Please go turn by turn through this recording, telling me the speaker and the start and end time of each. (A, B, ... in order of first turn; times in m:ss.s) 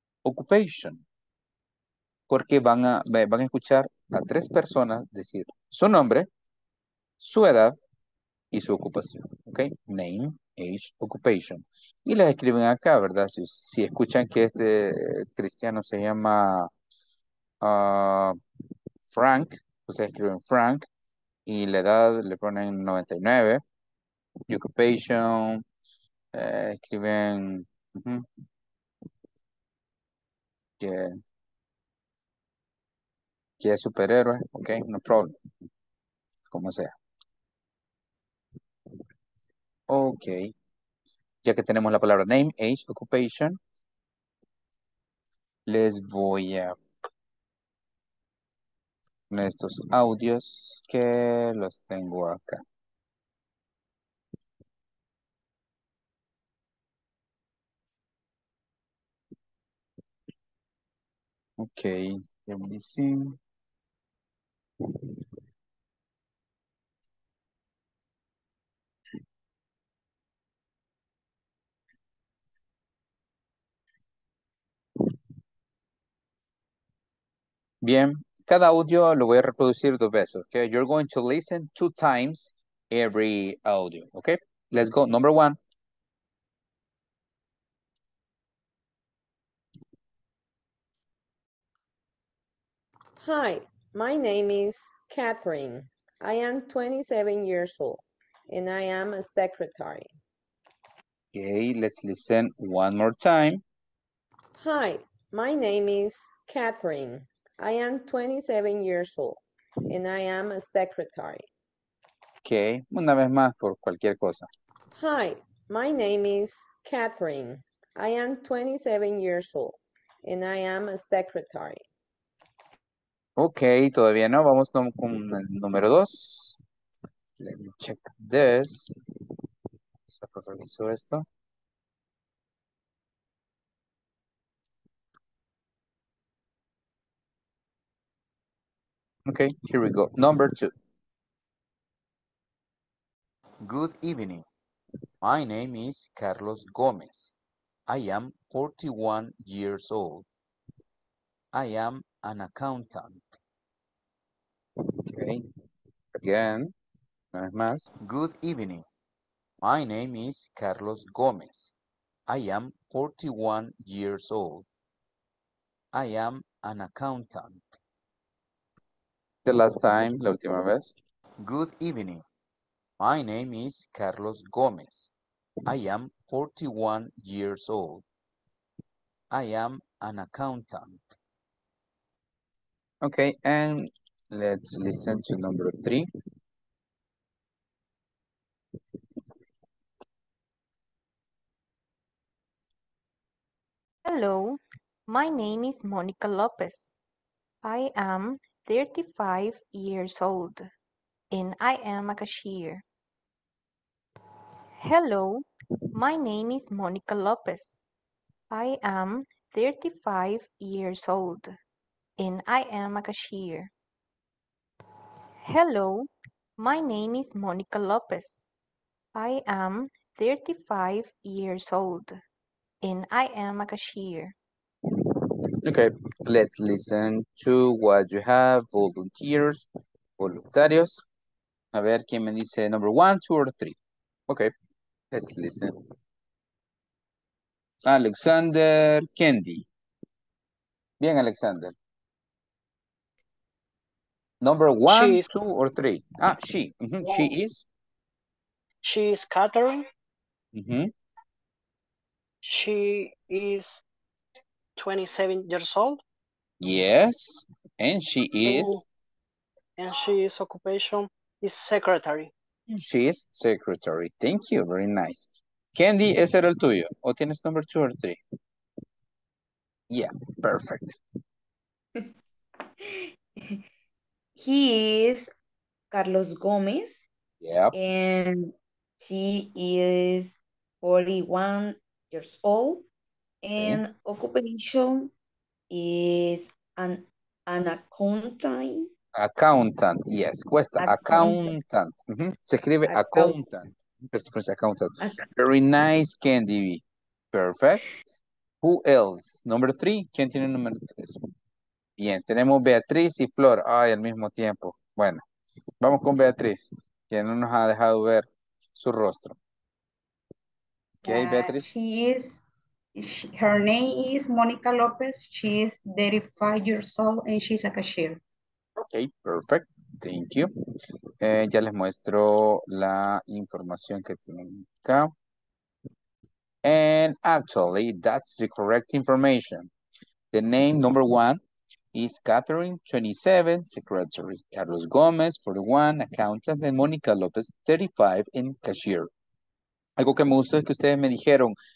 0:00.2-0:01.0 A
0:02.3-0:06.3 A
0:07.2-0:07.8 A
0:08.5-0:16.7 A
0:17.6-0:18.4 A
0:19.1-0:20.9 A
0:21.5-0:23.6 A
0:24.5-0:25.6 A
0:26.3-0:28.3 A
0:30.8-0:31.2 A
0:33.6-0:35.4 A
0:36.5-0:36.9 A
0:39.9-0:40.5 A
0:41.4-0:43.6 A
0:45.7-0:46.8 A
0:49.3-0:52.6 A
1:01.6-1:03.4 A
1:17.8-1:25.6 A
1:33.2-1:40.2 B
1:41.3-1:43.6 A
1:44.6-1:51.5 B
1:52.4-1:54.5 A
1:55.0-2:01.8 B
2:03.4-2:06.6 A
2:07.4-2:08.9 A
2:10.1-2:11.3 A
2:19.3-2:20.7 A
2:23.6-2:24.4 A
2:25.2-2:27.3 A
2:27.9-2:30.3 A
2:31.5-2:33.4 A
2:35.0-2:35.4 A
2:36.1-2:36.7 A
2:37.3-2:38.8 A
2:39.6-2:41.7 A
2:42.3-2:44.7 A
2:45.9-2:47.8 A
2:49.4-2:52.2 A
2:53.0-2:55.1 A
2:55.7-2:58.0 A
2:59.3-3:01.2 A
3:03.0-3:06.1 A
3:14.0-3:17.0 C
3:17.6-3:20.7 C
3:21.3-3:22.8 C
3:24.8-3:27.8 C
3:28.5-3:31.6 C
3:32.2-3:33.7 C
3:35.4-3:38.5 C
3:39.2-3:42.2 C
3:42.8-3:44.4 C
3:45.6-3:49.7 A
3:50.2-3:51.0 A
3:51.7-3:54.5 A
3:55.1-3:55.8 A
3:57.9-3:59.7 A
4:01.0-4:01.8 A
4:04.4-4:07.6 A
4:04.9-4:05.3 D
4:08.8-4:09.9 D
4:10.5-4:10.9 A
4:12.4-4:13.8 D
4:14.8-4:16.0 D
4:16.6-4:18.8 A
4:18.4-4:18.8 D
4:19.8-4:22.3 D
4:22.7-4:28.2 A
4:29.9-4:31.0 A
4:32.8-4:33.6 E
4:34.4-4:35.3 E
4:35.9-4:37.1 E
4:37.4-4:37.7 A
4:37.7-4:42.8 E
4:43.4-4:45.1 E
4:45.7-4:48.9 E
4:49.2-4:57.9 A
4:50.8-4:51.6 E
4:52.9-4:53.4 E
4:58.6-5:01.2 A
5:02.0-5:05.2 A
5:05.8-5:09.4 A
5:11.0-5:12.4 F
5:11.0-5:11.7 A
5:13.0-5:18.2 F
5:18.8-5:20.5 A
5:21.2-5:25.1 A
5:26.6-5:29.7 A
5:30.3-5:31.4 A
5:31.9-5:39.1 A
5:40.0-5:41.6 A